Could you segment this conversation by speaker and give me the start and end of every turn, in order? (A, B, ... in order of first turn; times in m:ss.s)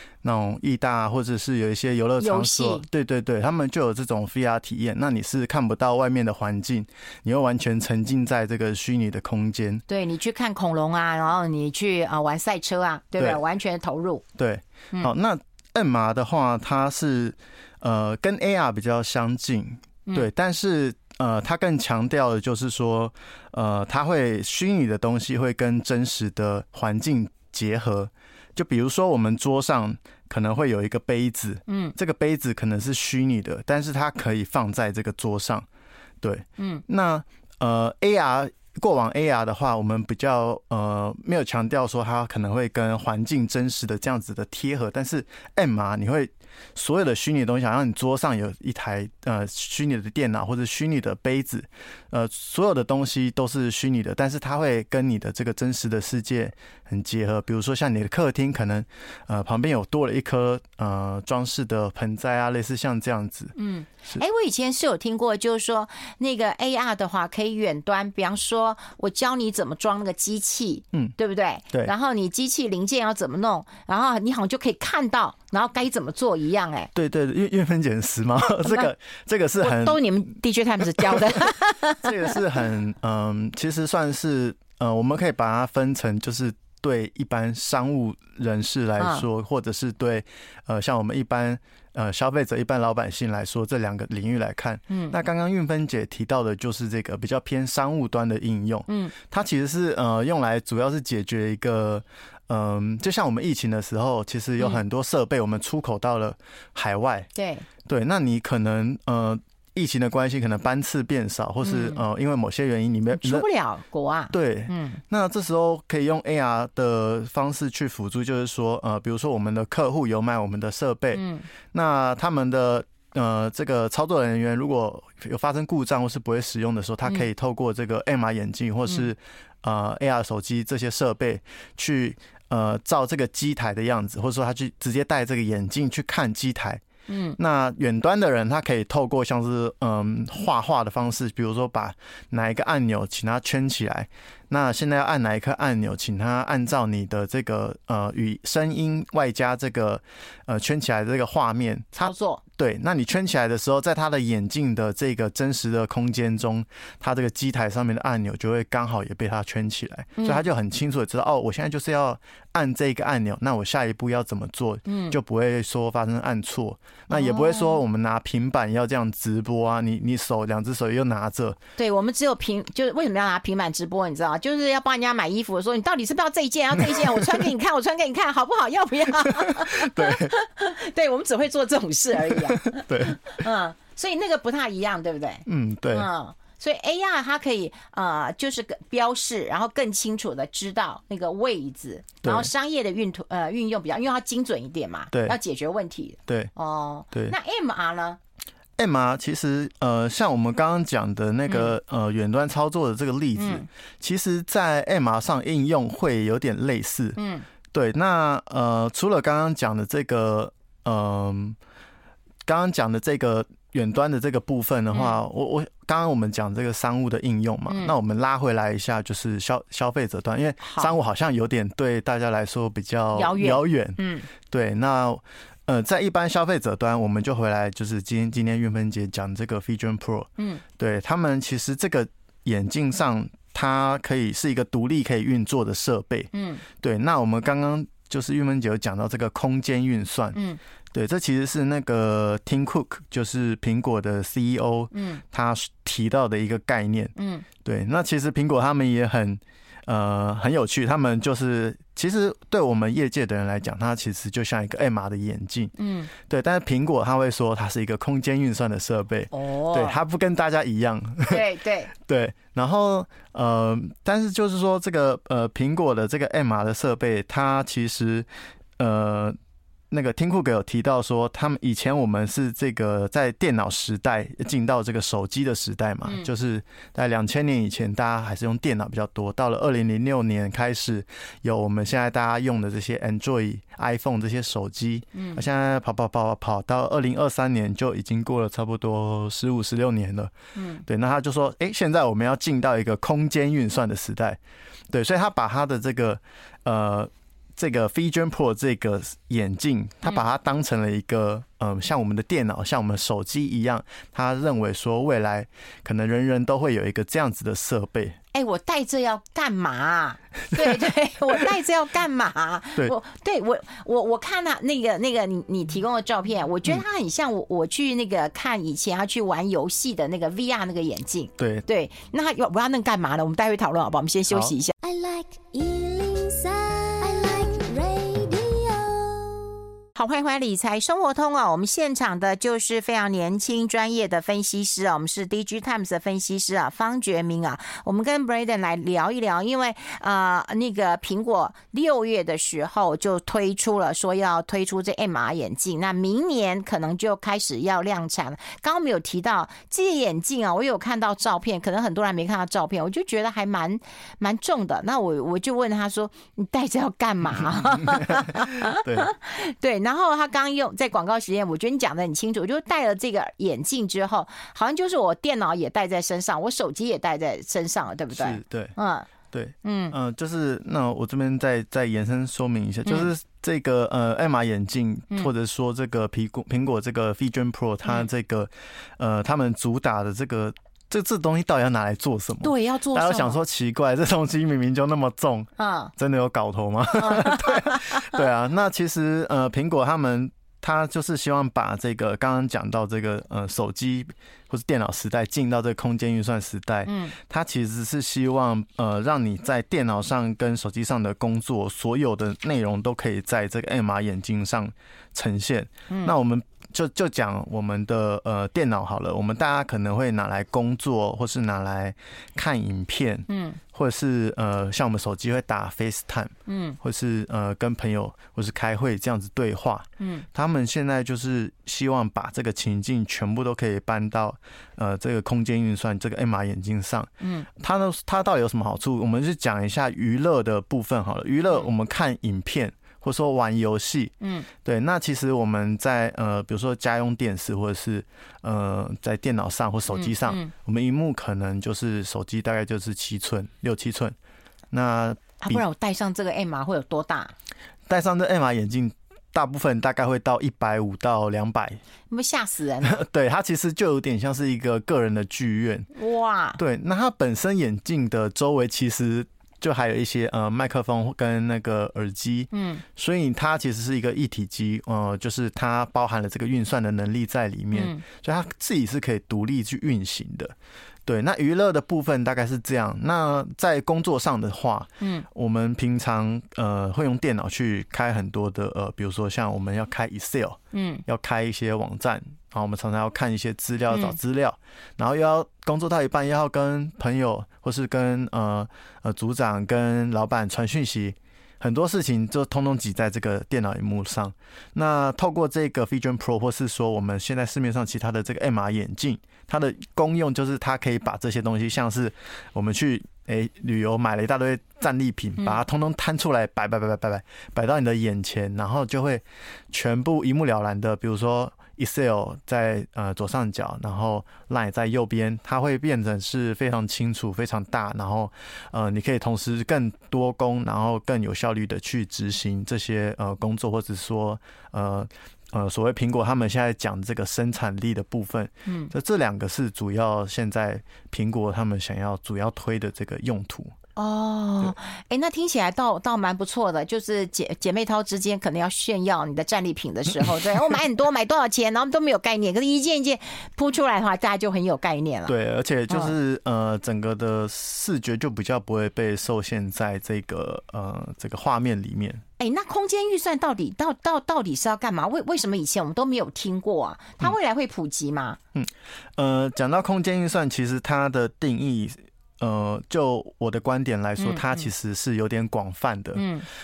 0:00.2-0:09.8 A
0:02.2-0:02.8 B
0:09.9-0:14.2 B
0:14.4-0:35.7 A
0:31.7-0:31.9 B
0:36.2-1:03.5 A
0:36.6-0:36.8 B
1:03.6-1:16.9 B
1:16.9-1:20.0 A
1:19.6-1:22.3 B
1:21.0-1:21.3 A
1:22.0-1:47.3 A
1:29.0-1:29.2 B
1:34.9-1:35.2 B
1:38.9-1:39.1 B
1:47.3-1:47.6 B
1:47.8-1:53.4 A
1:51.6-1:52.0 B
1:53.1-1:55.0 B
1:54.3-2:16.8 A
2:01.1-2:01.4 B
2:17.1-2:17.4 B
2:17.4-2:51.6 A
2:32.0-2:32.4 B
2:40.2-2:40.5 B
2:44.8-2:45.2 B
2:47.1-2:47.8 B
2:51.8-3:18.2 B
2:56.9-2:57.4 A
2:59.3-3:00.3 A
3:02.3-3:03.2 A
3:05.4-3:06.1 A
3:12.2-3:12.5 A
3:15.1-3:15.4 A
3:16.3-3:16.5 A
3:18.8-3:27.2 A
3:23.4-3:23.7 B
3:27.2-3:27.4 B
3:27.7-3:31.6 A
3:32.4-4:00.4 A
3:37.7-3:37.9 B
3:40.6-3:40.9 B
3:43.1-3:44.3 B
3:50.4-3:50.6 B
3:56.3-3:56.6 B
4:00.9-4:28.3 A
4:04.9-4:05.2 B
4:07.2-4:07.4 B
4:15.8-4:16.1 B
4:19.3-4:20.0 B
4:21.3-4:21.9 B
4:28.8-4:29.4 A
4:29.9-4:50.3 A
4:45.1-4:45.4 B
4:50.6-4:50.8 B
4:50.8-5:08.2 A
5:08.3-5:24.7 B
5:21.4-5:21.6 A
5:24.8-5:29.5 C
5:29.9-6:09.1 B
5:57.8-5:59.1 A
6:08.1-6:08.7 A
6:09.3-7:24.2 A
6:09.6-6:09.9 B
6:12.8-6:13.1 B
6:22.4-6:23.4 B
6:25.6-6:25.9 B
6:27.0-6:28.2 B
6:36.8-6:37.1 B
6:45.9-6:46.1 B
6:53.3-6:53.6 B
6:56.5-6:56.8 B
7:00.0-7:00.2 B
7:07.2-7:07.5 B
7:14.2-7:14.5 B
7:19.9-7:20.5 B
7:24.7-7:25.6 A
7:25.4-7:27.3 B
7:27.9-7:31.8 A
7:32.1-7:33.0 B
7:32.8-7:35.9 A
7:35.9-7:36.6 B
7:36.6-7:50.5 A
7:42.5-7:42.8 B
7:47.7-7:48.0 B
7:51.0-8:53.7 A
7:55.0-7:55.2 B
8:00.7-8:01.0 B
8:03.9-8:04.2 B
8:48.6-8:48.9 B
8:54.0-9:05.3 B
9:05.3-9:12.2 A
9:12.4-9:18.4 B
9:18.5-9:26.2 A
9:24.2-9:24.6 B
9:26.1-9:26.4 B